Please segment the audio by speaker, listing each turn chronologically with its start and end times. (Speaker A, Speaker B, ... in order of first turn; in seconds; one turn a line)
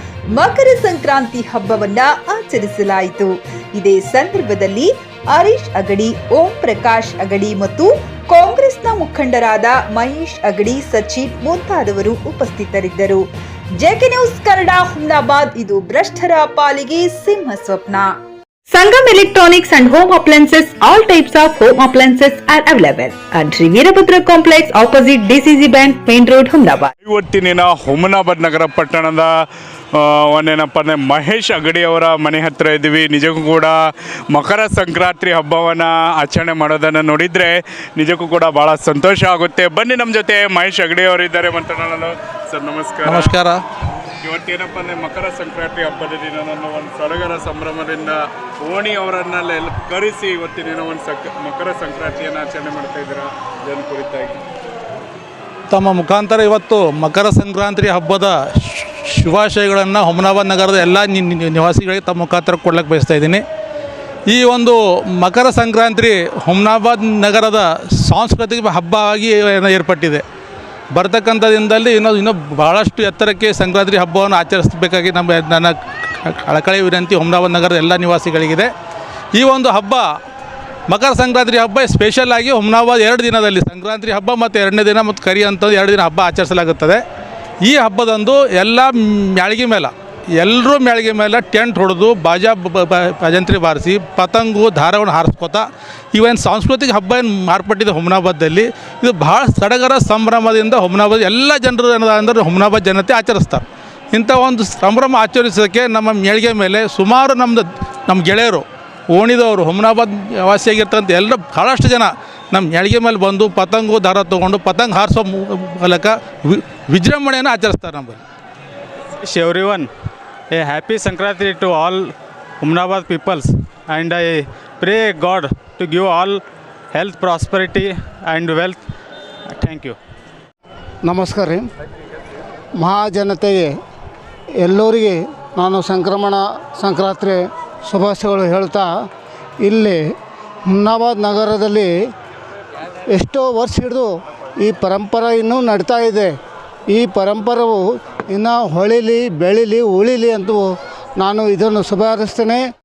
Speaker A: 0.3-13.2
Speaker A: 13.8-18.1
Speaker A: 18.7-26.9
Speaker B: 27.0-29.3
Speaker B: 29.9-33.8
Speaker B: 34.3-43.3
Speaker C: 43.0-43.6
Speaker B: 44.2-54.4
Speaker C: 55.7-63.5
Speaker C: 64.3-70.2
Speaker C: 70.9-78.7
Speaker C: 79.3-80.1
Speaker C: 80.9-87.0
Speaker C: 87.6-118.2
Speaker D: 119.2-119.9
Speaker D: 120.5-128.8
Speaker D: 129.5-130.0
Speaker E: 131.1-131.7
Speaker E: 132.8-133.7
Speaker E: 134.6-138.9
Speaker E: 139.6-140.1
Speaker E: 140.7-141.9
Speaker E: 143.1-144.1
Speaker E: 144.6-146.3
Speaker E: 146.9-150.7
Speaker E: 151.2-152.6